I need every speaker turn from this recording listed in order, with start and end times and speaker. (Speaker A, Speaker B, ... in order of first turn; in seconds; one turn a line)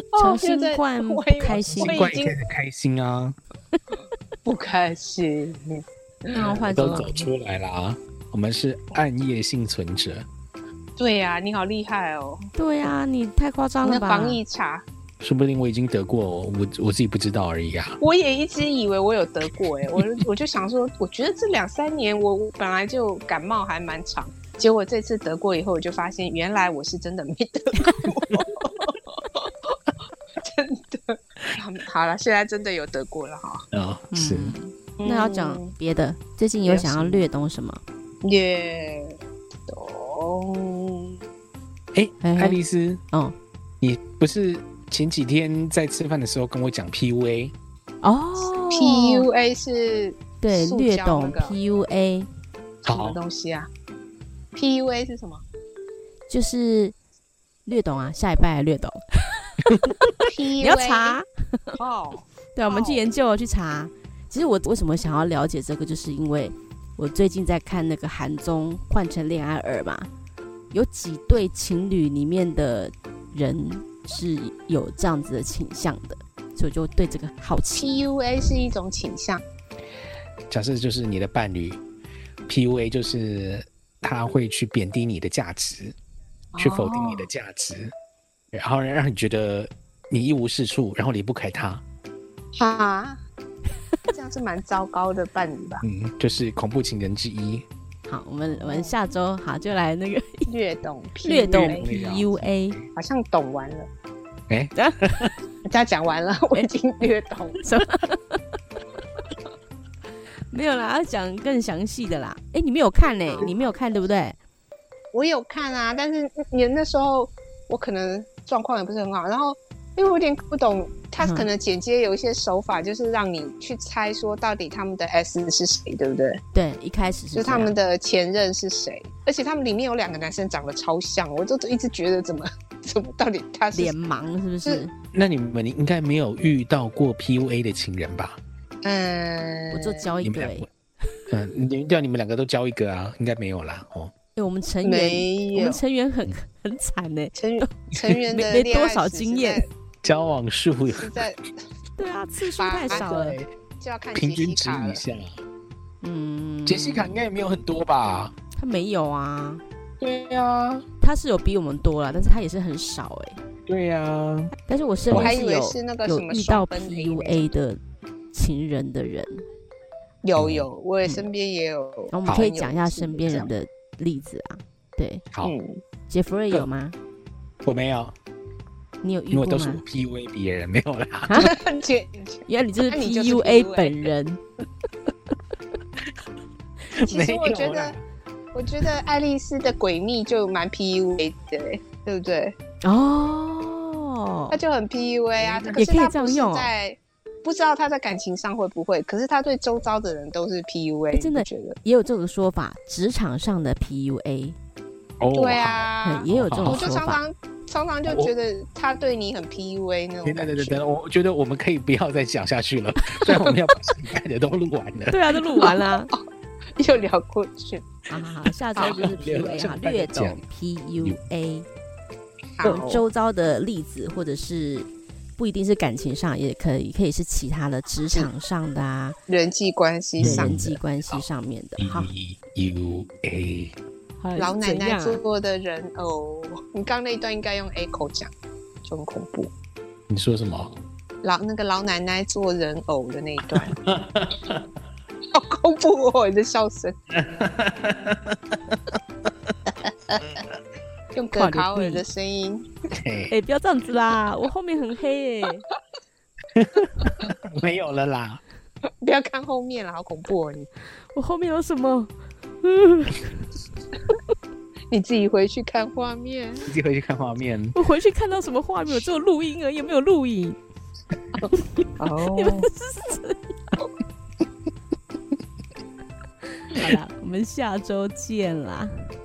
Speaker A: 0.1-2.4
Speaker B: 0.1-2.1
Speaker C: 1.8-3.4
Speaker A: 4.4-7.1
Speaker B: 6.3-7.3
Speaker C: 6.4-10.3
Speaker A: 11.0-12.5
Speaker B: 12.6-14.4
Speaker A: 13.8-14.8
Speaker C: 15.2-18.0
Speaker A: 18.0-29.7
Speaker C: 19.9-20.2
Speaker A: 30.4-33.6
Speaker C: 33.7-34.5
Speaker B: 34.1-37.8
Speaker A: 35.0-35.7
Speaker A: 36.6-37.3
Speaker A: 38.2-41.2
Speaker C: 41.9-43.0
Speaker B: 42.2-42.6
Speaker C: 43.8-47.5
Speaker B: 48.0-49.2
Speaker A: 48.5-51.5
Speaker B: 50.4-52.3
Speaker A: 52.8-53.7
Speaker C: 52.8-53.2
Speaker A: 54.5-55.4
Speaker B: 56.3-56.9
Speaker B: 57.6-59.7
Speaker A: 60.2-61.2
Speaker B: 60.6-61.8
Speaker A: 61.8-63.1
Speaker B: 62.5-70.1
Speaker B: 70.7-78.0
Speaker A: 77.8-79.4
Speaker C: 80.5-81.8
Speaker C: 82.5-86.0
Speaker A: 86.5-87.3
Speaker C: 86.6-87.9
Speaker C: 88.5-91.8
Speaker A: 92.5-93.2
Speaker A: 94.1-95.8
Speaker C: 95.8-97.7
Speaker B: 98.1-100.5
Speaker A: 98.5-98.9
Speaker A: 100.5-101.9
Speaker B: 101.2-102.8
Speaker C: 101.5-102.9
Speaker A: 102.9-103.9
Speaker C: 104.5-105.4
Speaker B: 104.8-105.3
Speaker A: 105.7-107.6
Speaker B: 107.6-108.4
Speaker B: 110.5-114.4
Speaker A: 113.3-113.7
Speaker A: 115.1-126.4
Speaker B: 121.2-121.5
Speaker B: 126.5-127.7
Speaker A: 127.3-133.9
Speaker B: 133.7-134.9
Speaker C: 135.1-138.4
Speaker A: 138.8-140.1
Speaker B: 139.7-140.7
Speaker C: 140.2-140.7
Speaker C: 141.3-144.1
Speaker B: 144.3-147.7
Speaker A: 144.8-145.8
Speaker A: 147.3-149.7
Speaker B: 148.3-149.6
Speaker C: 150.0-151.2
Speaker A: 150.9-151.5
Speaker B: 152.0-153.4
Speaker A: 152.6-153.1
Speaker C: 152.9-153.5
Speaker A: 153.8-155.0
Speaker C: 154.1-155.4
Speaker B: 156.0-157.1
Speaker C: 156.7-158.3
Speaker B: 158.6-159.6
Speaker C: 160.0-160.8
Speaker B: 161.0-163.4
Speaker C: 163.7-164.5
Speaker B: 164.7-167.8
Speaker C: 165.1-165.3
Speaker A: 165.1-167.5
Speaker B: 168.3-169.4
Speaker A: 170.2-173.5
Speaker C: 170.4-170.7
Speaker B: 172.1-175.2
Speaker C: 172.2-172.5
Speaker A: 175.4-175.8
Speaker B: 176.1-176.9
Speaker C: 177.6-178.1
Speaker B: 179.0-179.8
Speaker C: 179.3-181.5
Speaker B: 181.3-181.5
Speaker A: 181.4-184.1
Speaker B: 182.5-184.4
Speaker C: 186.9-188.0
Speaker A: 187.1-188.0
Speaker A: 188.5-192.6
Speaker B: 192.8-194.6
Speaker A: 194.5-201.8
Speaker C: 195.4-195.9
Speaker B: 195.8-196.7
Speaker B: 201.1-204.6
Speaker C: 205.2-206.8
Speaker A: 205.3-210.8
Speaker B: 206.0-207.2
Speaker C: 208.1-208.3
Speaker C: 210.2-215.2
Speaker B: 213.1-213.4
Speaker B: 215.1-216.1
Speaker A: 215.5-216.2
Speaker A: 216.8-217.9
Speaker B: 218.1-221.7
Speaker C: 218.4-220.4
Speaker A: 222.6-223.0
Speaker B: 222.6-229.2
Speaker A: 229.3-230.6
Speaker C: 230.2-231.2
Speaker B: 230.2-232.1
Speaker C: 231.8-233.8
Speaker B: 234.2-235.2
Speaker A: 234.4-238.3
Speaker A: 238.8-239.5
Speaker C: 240.1-240.8
Speaker A: 241.2-243.8
Speaker C: 243.5-244.7
Speaker A: 245.3-246.9
Speaker C: 247.1-249.5
Speaker A: 251.1-252.7
Speaker B: 251.3-252.0
Speaker C: 252.9-253.3
Speaker B: 253.3-255.6
Speaker C: 256.5-258.4
Speaker A: 259.0-260.7
Speaker B: 261.1-263.5
Speaker A: 264.9-266.7
Speaker C: 266.6-267.8
Speaker B: 267.7-270.6
Speaker A: 271.4-272.7
Speaker B: 272.3-273.4
Speaker B: 276.7-278.9